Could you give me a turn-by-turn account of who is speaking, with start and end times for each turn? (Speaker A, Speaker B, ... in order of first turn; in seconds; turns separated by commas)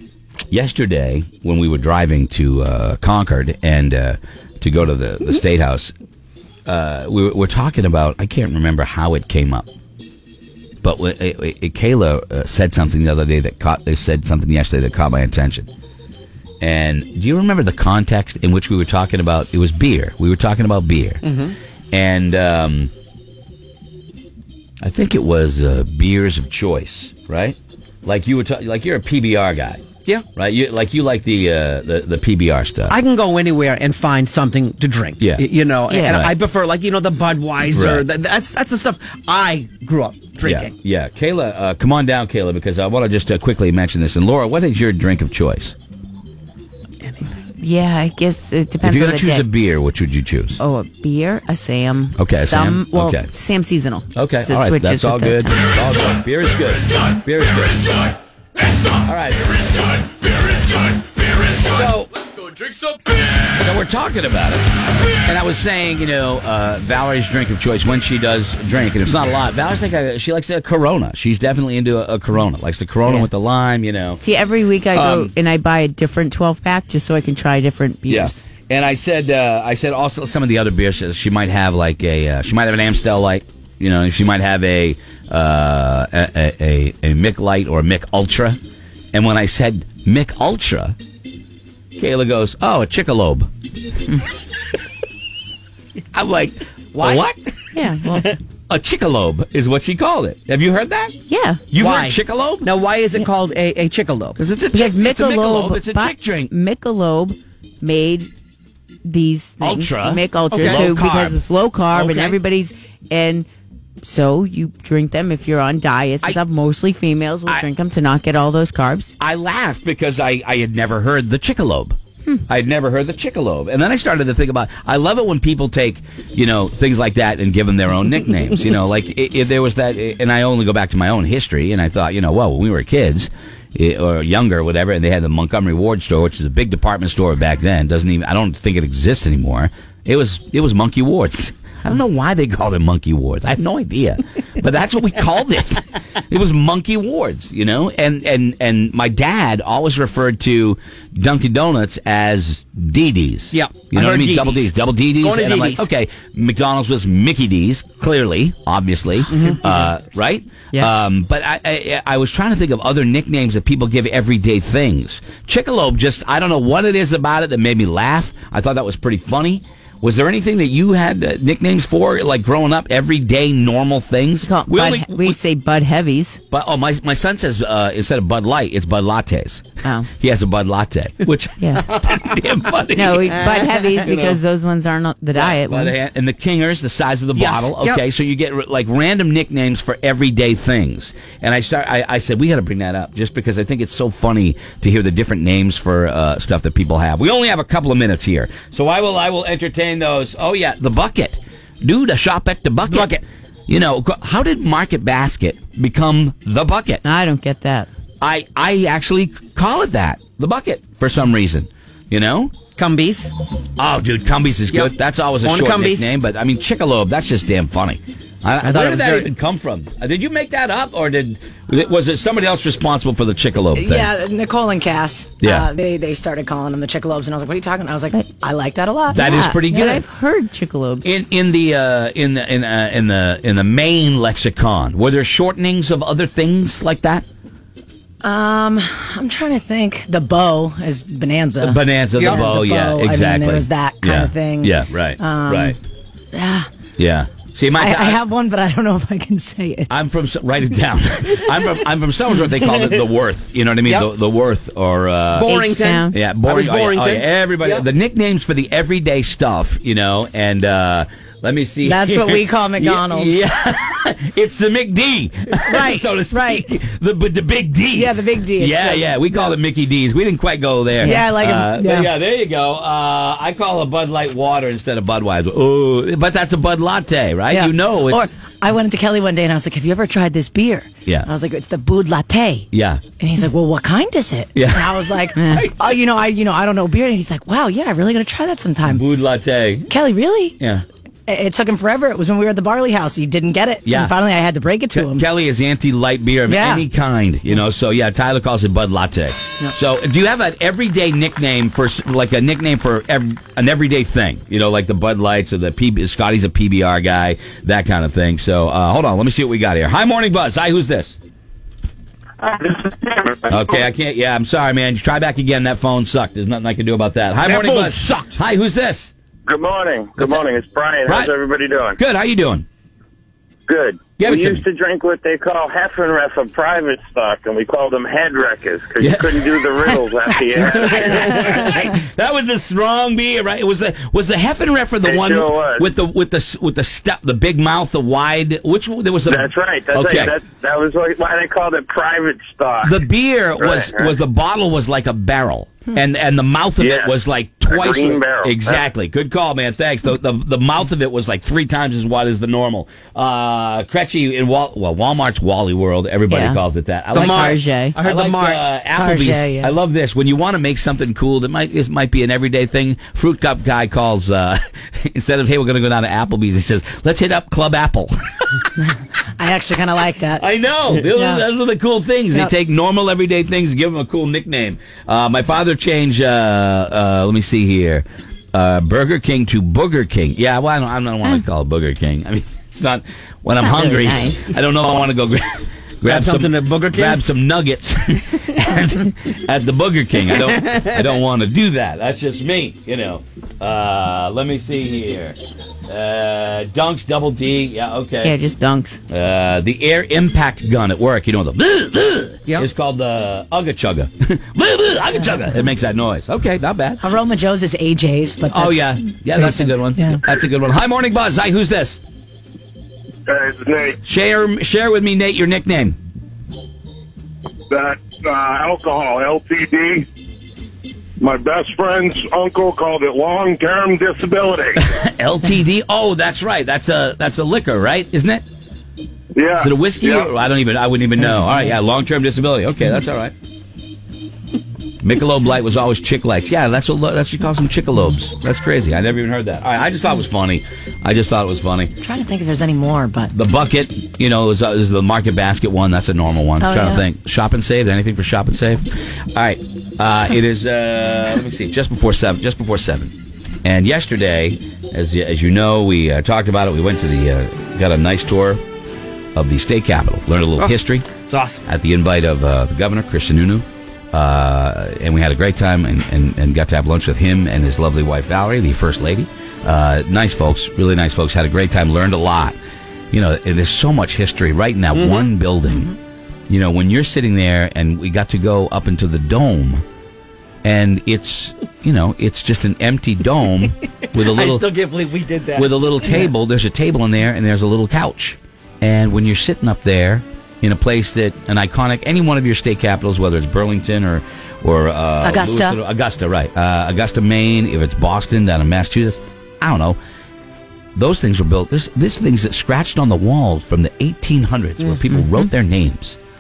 Speaker A: 0.5-5.9, Speaker A: 6.7-9.7, Speaker A: 10.8-15.7, Speaker A: 16.6-21.2, Speaker B: 21.2-21.5, Speaker A: 21.9-22.9, Speaker A: 24.8-29.8, Speaker A: 30.3-32.9, Speaker B: 32.9-40.7, Speaker A: 35.2-35.5, Speaker C: 35.9-36.3, Speaker A: 36.0-36.3, Speaker A: 37.6-38.0, Speaker A: 40.4-45.7, Speaker B: 47.0-47.3, Speaker C: 47.6-49.5, Speaker A: 48.8-50.6, Speaker C: 50.6-55.7, Speaker A: 52.2-53.3, Speaker A: 54.1-58.0, Speaker A: 58.9-60.2, Speaker A: 61.5-62.2, Speaker A: 63.5-64.7, Speaker A: 65.2-74.2, Speaker C: 74.2-78.4, Speaker A: 74.9-75.3, Speaker A: 78.1-88.6, Speaker A: 89.1-91.0, Speaker A: 92.0-93.5, Speaker A: 96.1-97.4, Speaker B: 96.9-97.2, Speaker C: 97.7-98.3, Speaker A: 98.7-101.1, Speaker C: 101.3-101.6, Speaker A: 101.7-102.7, Speaker B: 101.7-104.4, Speaker A: 104.4-106.5, Speaker C: 104.7-108.3, Speaker C: 109.0-113.5, Speaker A: 109.6-111.4, Speaker B: 110.5-110.8, Speaker A: 111.9-112.3, Speaker C: 114.0-119.2, Speaker A: 119.2-122.0, Speaker A: 122.5-175.4, Speaker B: 153.5-155.9, Speaker B: 159.3-159.7, Speaker C: 174.4-176.4, Speaker A: 176.5-179.6, Speaker A: 180.2-183.5, Speaker C: 181.6-181.9, Speaker C: 182.9-186.0, Speaker B: 184.0-184.4, Speaker A: 185.3-207.0, Speaker B: 187.3-188.0, Speaker C: 207.0-207.9, Speaker A: 208.2-212.5, Speaker B: 212.8-213.3, Speaker A: 213.8-224.1, Speaker B: 215.4-216.1, Speaker B: 218.6-219.3, Speaker D: 223.7-229.3, Speaker A: 225.4-225.7, Speaker A: 229.1-230.0, Speaker C: 229.1-231.1, Speaker A: 231.0-237.2, Speaker D: 238.2-245.8, Speaker A: 241.6-245.8, Speaker D: 246.3-246.7, Speaker A: 247.0-248.2, Speaker D: 247.7-249.9, Speaker A: 249.9-278.3, Speaker B: 252.6-253.1, Speaker B: 253.8-254.1, Speaker B: 255.3-257.9, Speaker C: 255.5-256.2, Speaker D: 261.8-263.4, Speaker D: 265.6-266.7, Speaker D: 267.9-269.5, Speaker C: 271.0-271.3, Speaker D: 271.0-272.1, Speaker D: 277.5-282.7, Speaker A: 282.7-283.0, Speaker D: 283.2-289.1, Speaker A: 284.5-285.7, Speaker A: 288.9-289.9, Speaker D: 289.9-290.6, Speaker A: 290.6-290.8, Speaker D: 291.3-295.3, Speaker A: 293.8-294.1, Speaker A: 294.9-311.2, Speaker D: 296.5-296.8, Speaker E: 312.4-312.9, Speaker A: 313.5-319.1, Speaker B: 317.5-318.2, Speaker E: 319.5-322.0, Speaker A: 320.2-320.4, Speaker A: 321.1-321.3, Speaker A: 322.0-322.6, Speaker E: 323.7-331.6, Speaker A: 324.2-324.6, Speaker A: 329.0-330.0, Speaker A: 330.5-340.4, Speaker E: 335.0-335.9, Speaker E: 339.3-342.8, Speaker F: 340.0-340.3, Speaker A: 342.8-368.6, Speaker E: 343.6-343.9, Speaker E: 346.8-347.1, Speaker E: 347.7-348.8, Speaker C: 356.3-356.6, Speaker B: 357.1-358.7, Speaker C: 357.1-358.0, Speaker D: 359.0-359.7, Speaker D: 368.8-371.4, Speaker A: 370.4-398.4, Speaker C: 383.6-384.5, Speaker B: 386.0-387.2, Speaker B: 390.4-391.0, Speaker C: 398.2-399.0, Speaker A: 399.1-407.0, Speaker D: 407.0-410.2, Speaker A: 408.5-412.0, Speaker F: 413.3-414.0, Speaker A: 414.0-415.9, Speaker F: 417.7-420.1, Speaker F: 421.2-424.8, Speaker A: 424.8-428.4, Speaker F: 429.3-430.3, Speaker A: 429.6-433.3, Speaker A: 435.0-441.9, Speaker D: 442.0-443.3, Speaker A: 443.3-453.1, Speaker D: 446.7-447.0, Speaker A: 453.6-458.6, Speaker A: 459.3-461.1, Speaker B: 460.6-461.6, Speaker A: 461.6-472.6, Speaker A: 473.1-475.9, Speaker B: 474.9-475.3, Speaker A: 476.5-479.8, Speaker A: 480.6-484.7, Speaker B: 484.1-486.3, Speaker A: 485.6-500.0, Speaker D: 495.2-495.8, Speaker A: 500.9-506.2, Speaker C: 505.1-505.4